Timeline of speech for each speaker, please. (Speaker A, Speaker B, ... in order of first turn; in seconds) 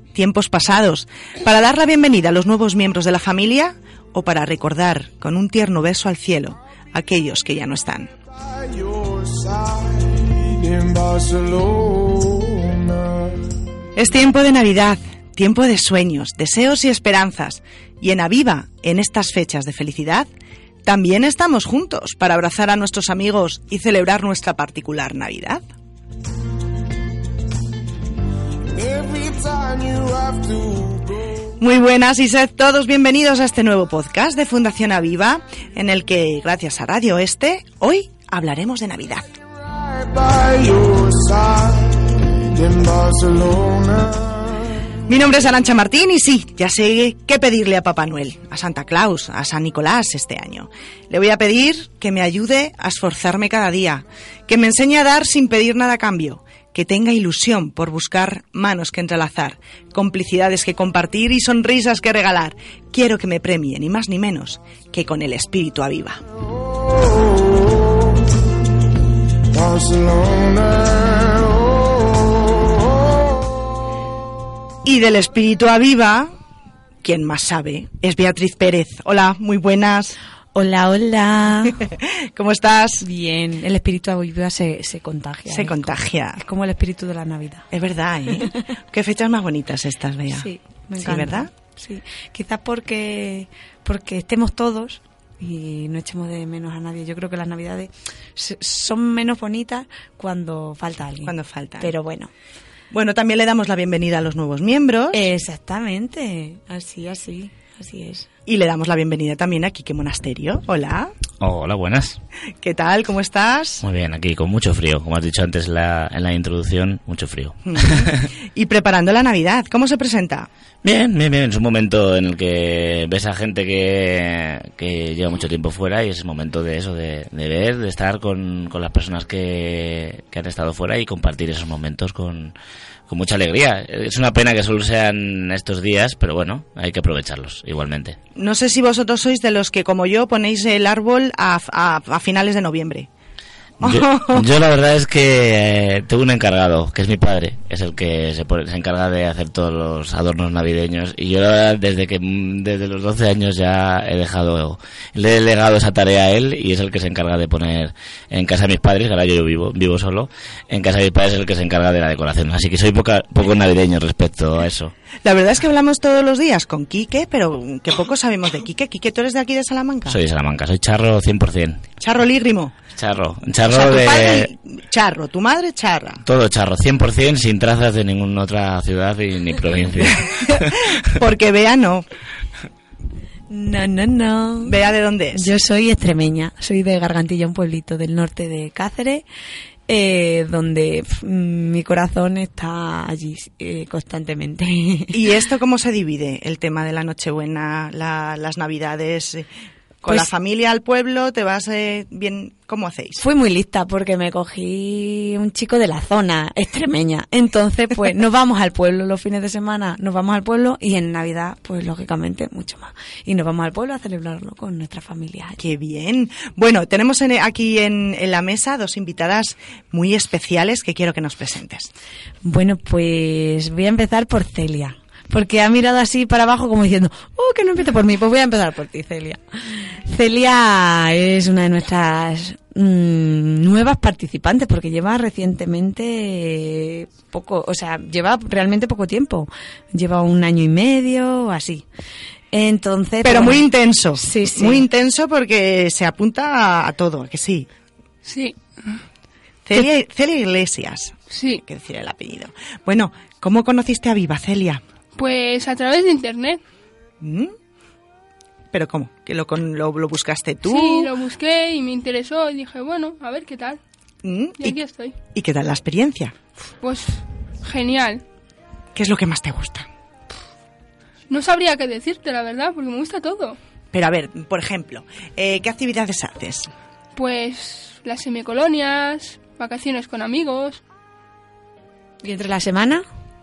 Speaker A: 0.1-8.1, 14.0-20.3, 20.9-25.6, 31.6-39.3, 40.4-41.3, 45.1-66.2, 74.8-76.3, 77.0-80.2, 81.9-83.1, 85.5-86.4, 87.7-91.5, 101.3-101.9, 102.9-105.3, 108.5-111.1, 112.6-113.8, 117.7-120.5, 138.4-143.1, 143.8-144.5, 165.2-170.2, 172.0-172.8, 173.7-176.2, 180.3-182.1, 184.6-185.5, 195.1-199.5, 200.0-203.2, 215.6-221.9, 243.2-247.7, 249.7-254.8, 257.2-257.5, 258.7-261.1, 264.2-264.8, 265.3-266.4, 268.9-269.9, 273.9-276.7
Speaker B: 80.5-81.8, 83.0-87.7, 90.3-102.3, 105.1-108.3, 183.5-184.8, 185.3-189.2, 189.9-195.2, 203.2-215.6, 222.4-241.8, 242.5-244.9, 282.2-283.1
Speaker C: 111.4-112.2, 113.8-118.2, 120.8-132.6, 133.1-138.2, 143.8-164.9, 170.1-171.8, 173.0-174.5, 176.3-180.8
Speaker D: 248.2-249.0, 251.3-251.6, 255.2-256.6, 260.6-263.8, 264.6-265.1, 266.8-268.2, 271.3-273.6, 277.2-280.8